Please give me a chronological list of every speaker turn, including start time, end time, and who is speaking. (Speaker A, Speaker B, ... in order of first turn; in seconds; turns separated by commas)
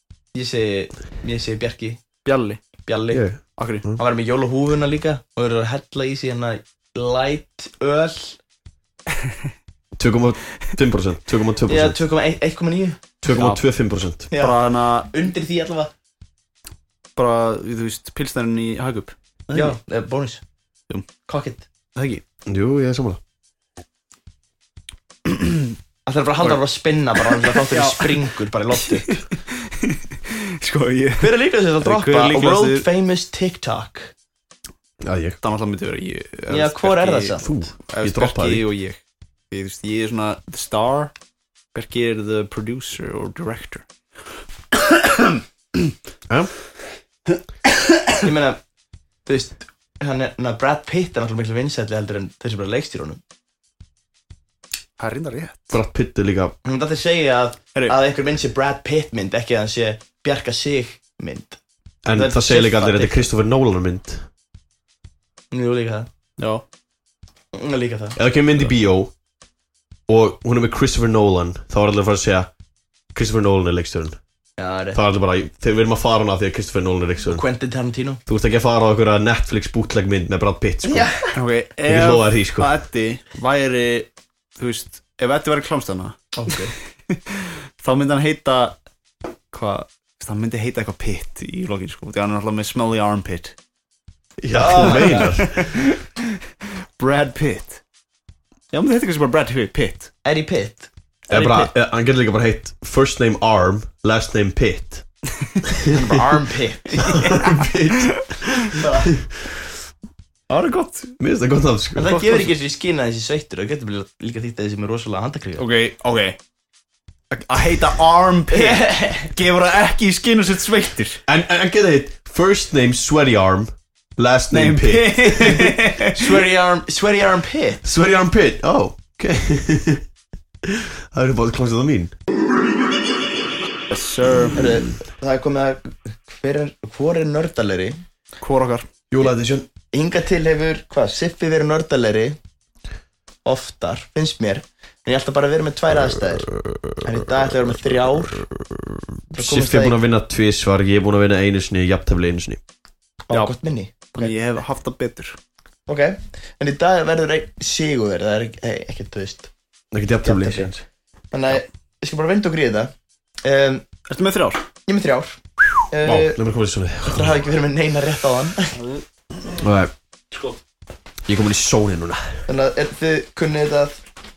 Speaker A: 0.3-2.0, Speaker B: 2.2-2.6, Speaker A: 2.9-3.2, Speaker C: 3.1-4.0, Speaker B: 3.6-3.9, Speaker A: 4.0-8.4, Speaker C: 10.0-12.0, Speaker A: 11.7-13.0, Speaker C: 13.2-14.2, Speaker B: 13.3-13.6, Speaker A: 14.3-15.9, Speaker B: 14.3-15.1, Speaker B: 17.1-19.8, Speaker A: 19.5-20.4, Speaker A: 21.2-21.6, Speaker B: 21.9-22.2, Speaker C: 22.5-23.2, Speaker B: 25.2-25.7, Speaker A: 26.1-29.2, Speaker B: 27.4-28.2, Speaker B: 29.0-32.8, Speaker A: 31.2-34.1, Speaker C: 35.0-35.4, Speaker B: 35.4-39.0, Speaker A: 36.5-37.4, Speaker C: 37.4-38.6, Speaker B: 39.5-41.1, Speaker B: 41.7-43.9, Speaker B: 44.7-45.9, Speaker B: 47.6-48.1, Speaker A: 48.2-48.6, Speaker A: 49.2-53.2, Speaker B: 55.0-55.8, Speaker C: 55.7-56.5, Speaker A: 56.6-61.6, Speaker C: 62.0-64.2, Speaker A: 62.1-63.3, Speaker A: 65.5-66.1, Speaker B: 66.4-66.6, Speaker A: 67.5-68.2, Speaker C: 68.2-69.1, Speaker C: 70.1-72.5, Speaker C: 73.1-74.2, Speaker A: 74.6-75.0, Speaker C: 74.9-77.4, Speaker A: 77.2-78.2, Speaker C: 78.2-81.1, Speaker A: 80.8-81.3, Speaker B: 81.3-83.9, Speaker C: 81.8-82.7, Speaker A: 83.5-84.0, Speaker B: 84.6-86.3, Speaker A: 86.3-86.7, Speaker B: 87.1-88.8, Speaker B: 89.5-93.5, Speaker C: 94.4-95.7, Speaker A: 94.6-95.3, Speaker B: 94.8-96.2, Speaker B: 97.0-97.8, Speaker B: 98.7-100.1, Speaker A: 100.2-100.9, Speaker B: 101.3-101.7, Speaker C: 101.3-105.0, Speaker A: 105.9-107.2, Speaker C: 107.0-108.7, Speaker B: 107.1-107.5, Speaker A: 108.7-109.1, Speaker B: 110.5-111.1, Speaker C: 111.2-112.2, Speaker A: 112.0-115.6, Speaker B: 112.1-112.5, Speaker B: 115.6-116.4, Speaker B: 117.3-121.2, Speaker A: 118.5-119.3, Speaker C: 121.2-125.7, Speaker B: 124.5-126.4, Speaker A: 126.0-127.8, Speaker C: 127.8-130.0, Speaker C: 130.7-132.1, Speaker B: 133.9-134.8, Speaker A: 134.5-138.0, Speaker B: 138.4-138.8, Speaker C: 139.1-139.7, Speaker A: 139.9-142.4, Speaker A: 143.4-146.5, Speaker C: 146.5-152.6, Speaker A: 147.0-148.4, Speaker A: 149.3-150.0, Speaker A: 153.3-154.3, Speaker B: 154.1-155.4, Speaker A: 155.9-159.5, Speaker C: 159.9-160.8, Speaker A: 160.2-160.7, Speaker A: 161.3-162.9, Speaker A: 163.4-163.8, Speaker B: 164.1-164.6, Speaker A: 164.8-166.4, Speaker C: 166.0-167.4, Speaker A: 167.0-168.8, Speaker B: 168.8-169.0, Speaker C: 169.6-169.9, Speaker C: 171.2-172.3, Speaker A: 172.5-174.0